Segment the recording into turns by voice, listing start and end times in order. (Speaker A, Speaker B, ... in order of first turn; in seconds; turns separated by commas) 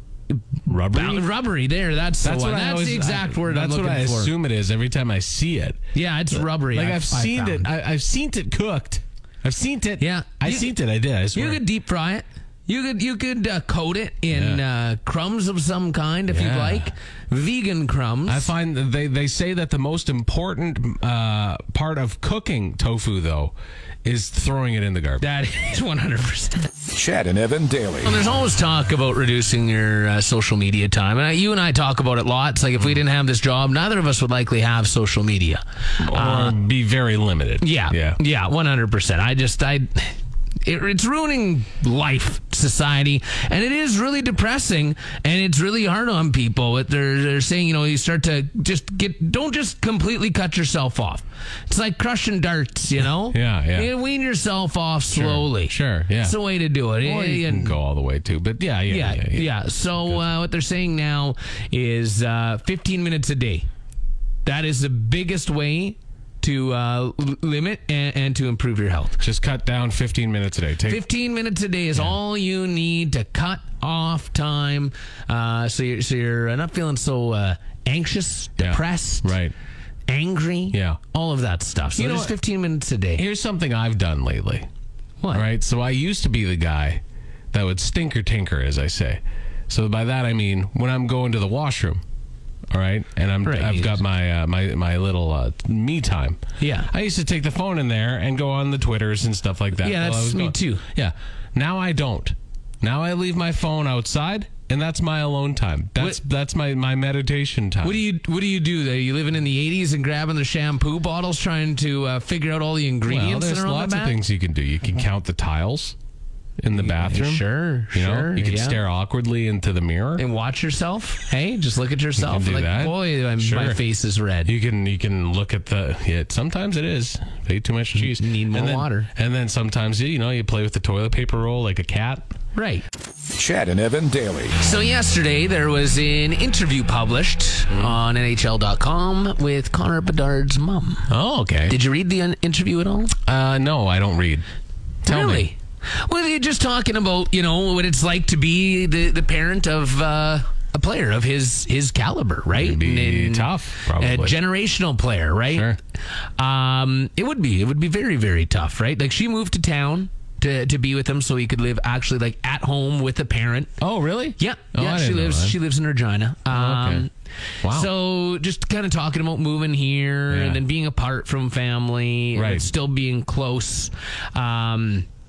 Speaker A: 0.7-4.3, Speaker B: 0.8-1.2, Speaker B: 2.2-5.8, Speaker A: 5.9-7.7, Speaker B: 6.3-11.6, Speaker A: 10.0-10.7, Speaker A: 11.3-18.5, Speaker B: 14.3-14.6, Speaker B: 16.3-16.9, Speaker B: 18.3-25.2, Speaker A: 25.2-26.7, Speaker C: 26.9-28.1, Speaker A: 28.1-36.6, Speaker B: 36.0-38.2, Speaker A: 37.6-57.8, Speaker B: 53.3-53.9, Speaker B: 55.1-56.4, Speaker B: 57.0-59.5, Speaker A: 58.9-63.7, Speaker A: 64.5-69.2, Speaker B: 69.2-71.0, Speaker A: 70.8-79.3, Speaker B: 78.6-79.5, Speaker A: 80.1-83.2, Speaker B: 80.7-81.0, Speaker B: 82.0-82.4, Speaker B: 83.2-84.7, Speaker B: 85.3-87.0, Speaker B: 87.5-92.0, Speaker B: 92.7-108.0, Speaker A: 93.4-94.0, Speaker A: 96.6-96.9, Speaker A: 99.8-100.8, Speaker A: 107.8-114.2, Speaker B: 113.1-116.0, Speaker B: 116.6-120.2, Speaker A: 116.7-118.8, Speaker A: 120.2-124.5, Speaker B: 122.2-123.8, Speaker B: 124.5-132.3, Speaker A: 128.0-129.1, Speaker A: 132.5-132.8, Speaker C: 133.4-134.6, Speaker A: 134.6-141.1, Speaker B: 137.7-138.0, Speaker B: 141.1-141.7, Speaker A: 141.7-143.1, Speaker B: 143.3-144.4, Speaker B: 145.1-145.5, Speaker A: 145.1-155.8, Speaker B: 152.5-154.4, Speaker B: 155.5-155.8, Speaker A: 156.4-163.7, Speaker B: 163.8-165.6, Speaker A: 164.4-167.1, Speaker B: 166.5-167.1, Speaker B: 167.6-167.9, Speaker A: 167.6-175.1, Speaker B: 170.3-170.6, Speaker B: 172.4-172.6